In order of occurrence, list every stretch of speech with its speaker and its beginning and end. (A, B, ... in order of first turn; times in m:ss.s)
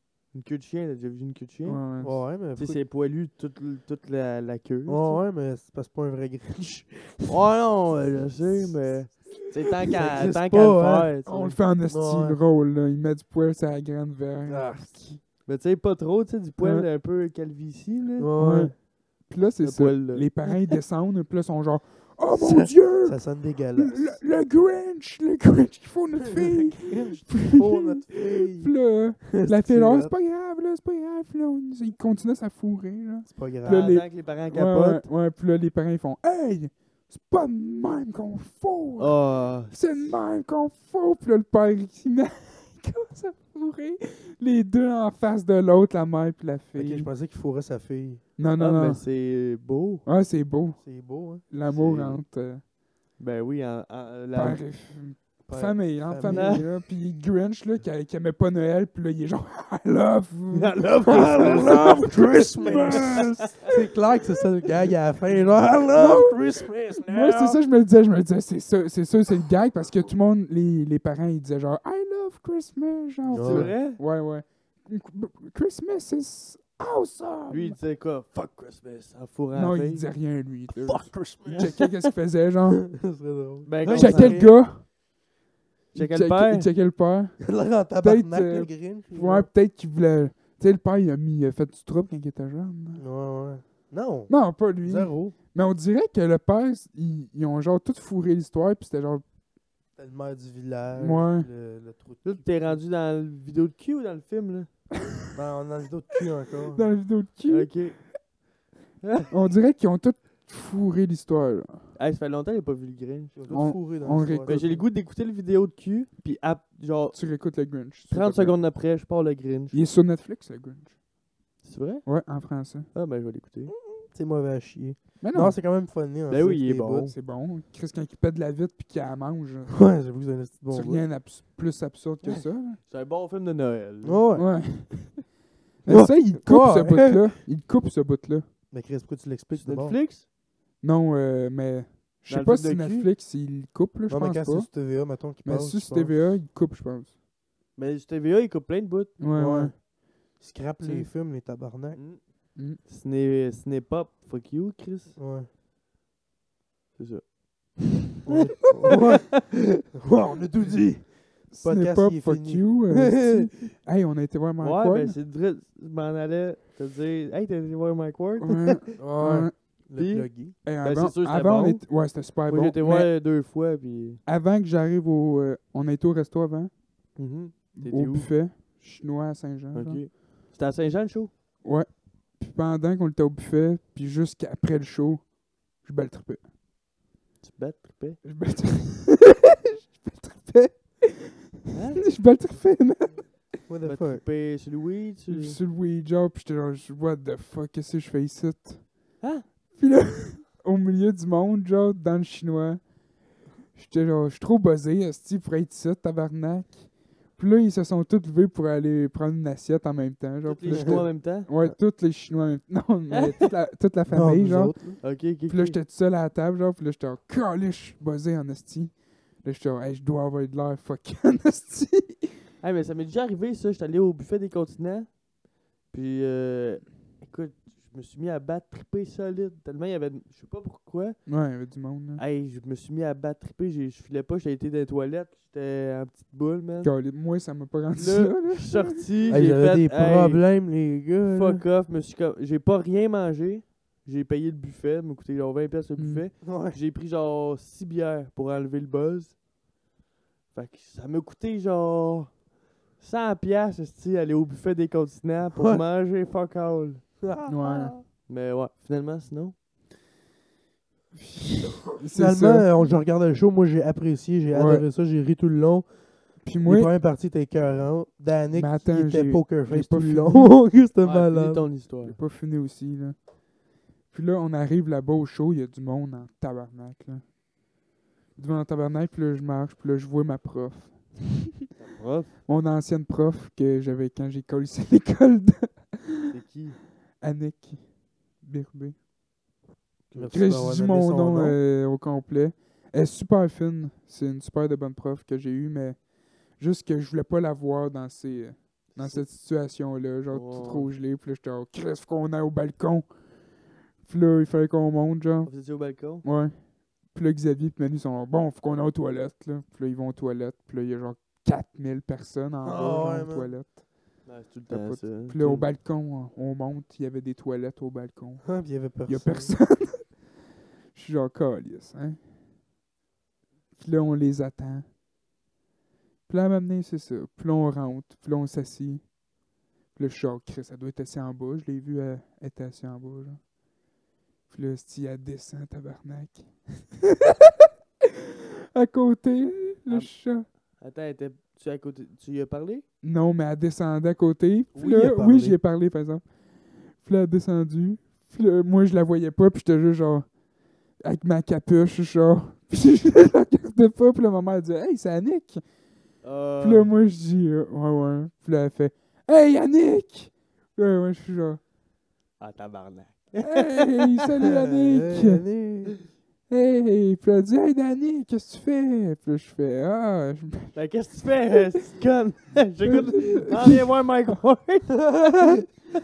0:00.3-0:01.9 A
0:01.7-0:02.2 B
0:02.0-0:02.8 C
0:02.6-0:05.2 A
0:04.9-0:07.4 C
0:07.3-0:11.6 A
0:10.0-0:11.1 C
0:11.3-0:15.2 B
0:11.9-0:12.4 C
0:14.5-0:15.1 C
0:15.4-0:18.3 A
0:16.6-0:16.9 B
0:18.2-0:18.8 C
0:18.4-0:47.1 B
0:19.6-0:20.6 A
0:22.3-0:24.2 C
0:26.2-0:30.2 C
0:33.3-0:33.9 C
0:33.6-0:35.0 A
0:39.0-0:39.8 A
0:46.8-0:48.2 C
0:48.4-0:49.0 B
0:48.6-0:50.0 A
0:50.0-0:52.6 B
0:50.8-0:52.0 C
0:51.7-0:52.2 A
0:53.2-0:54.6 A
0:54.4-1:03.8 B
0:55.5-0:56.7 C
0:56.3-0:56.6 A
1:00.5-1:02.0 A
1:01.1-1:07.6 C
1:02.8-1:03.5 A
1:05.8-1:17.8 B
1:13.3-1:13.7 C
1:13.4-1:14.0 A
1:17.5-1:20.1 A
1:19.5-1:23.0 B
1:20.9-1:21.9 C
1:21.5-1:21.8 A
1:22.9-1:24.6 C
1:23.6-1:24.5 A
1:23.9-1:25.0 B
1:25.9-1:26.7 A
1:25.9-1:33.0 B
1:27.4-1:29.5 C
1:33.0-1:35.4 C
1:34.3-1:39.2 B
1:40.0-1:42.8 C
1:41.0-1:41.5 B
1:42.2-1:44.7 A
1:45.4-1:46.9 C
1:46.7-1:48.1 B
1:47.5-1:48.3 A
1:49.0-1:49.3 A
1:49.3-1:51.9 B
1:52.0-1:53.8 A
1:53.4-1:54.8 C
1:53.5-1:54.8 B
1:54.4-1:57.2 A
1:57.1-1:58.6 B
1:58.1-1:59.8 A
1:59.7-2:01.0 B
2:01.6-2:02.3 A
2:02.0-2:02.9 B
2:02.9-2:03.7 A
2:03.8-2:07.1 C
2:05.2-2:05.6 B
2:06.3-2:07.2 A
2:07.1-2:09.9 B
2:09.7-2:11.1 C
2:10.7-2:12.8 B
2:12.2-2:14.2 A
2:14.0-2:14.6 C
2:14.4-2:18.5 B
2:15.8-2:17.3 C
2:18.7-2:20.0 C
2:19.5-2:20.2 A
2:20.8-2:27.2 B
2:22.3-2:23.1 A
2:24.1-2:26.2 C
2:27.8-2:29.1 A
2:29.2-2:29.8 B
2:29.4-2:32.0 C
2:31.9-2:32.2 A
2:32.8-2:35.2 A
2:35.2-2:35.5 C
2:37.0-2:37.8 A
2:38.2-2:43.5 C
2:38.3-2:39.0 A
2:41.5-2:45.2 B
2:44.6-2:49.0 A
2:48.4-2:49.6 B
2:49.0-2:50.6 C
2:49.9-2:54.2 A
2:50.6-2:53.2 B
2:54.3-2:56.7 B
2:57.2-2:58.3 A
2:57.8-3:00.1 B
2:59.7-3:01.3 A
3:01.6-3:06.5 B
3:07.4-3:08.2 A
3:08.2-3:13.5 B
3:11.7-3:12.0 A
3:13.7-3:14.2 C
3:13.8-3:15.6 A
3:15.3-3:19.1 B
3:19.2-3:19.5 A
3:19.8-3:23.0 B
3:23.7-3:42.3 B
3:30.5-3:31.5 A
3:30.7-3:31.1 C
3:33.1-3:33.4 A
3:34.1-3:35.0 C
3:35.0-3:35.8 A
3:42.6-3:45.2 A
3:45.8-3:51.3 A
3:51.3-3:52.2 B
3:52.2-3:56.9 A
3:56.8-3:59.0 B
3:58.0-4:00.4 A
3:59.3-4:01.6 C
4:01.3-4:09.4 A
4:06.0-4:06.3 B
4:06.4-4:06.8 C
4:10.5-4:12.4 A
4:13.0-4:17.3 A
4:15.6-4:15.8 C
4:17.2-4:18.0 C
4:17.5-4:18.0 B
4:18.2-4:19.6 A
4:21.2-4:22.7 B
4:22.1-4:31.7 C
4:24.5-4:24.8 B
4:26.4-4:26.9 B
4:28.6-4:30.6 B
4:31.0-4:32.2 A
4:32.0-4:33.2 B
4:34.1-4:37.4 B
4:38.4-4:41.5 B
4:41.8-4:42.3 A
4:42.5-4:46.3 B
4:46.3-4:46.8 A
4:47.2-4:49.0 B
4:50.1-4:50.4 A
4:50.2-4:51.6 C
4:50.3-5:20.4 B
4:58.9-4:59.3 A
5:00.3-5:00.9 A
5:05.4-5:06.2 A
5:12.6-5:13.5 C
5:14.2-5:15.7 A
5:18.4-5:19.6 C
5:20.9-5:22.2 B
5:23.8-5:24.9 B
5:26.3-5:29.2 B
5:30.0-5:33.4 B
5:34.5-5:37.5 B
5:38.7-5:40.5 B
5:39.9-5:42.8 A
5:43.0-5:55.7 B
5:44.7-5:45.6 C
5:56.2-5:56.9 A
5:56.6-6:01.6 B
6:02.4-6:04.2 A
6:03.4-6:05.4 B
6:04.4-6:06.0 C
6:06.5-6:10.8 B
6:10.7-6:15.0 A
6:15.0-6:15.6 C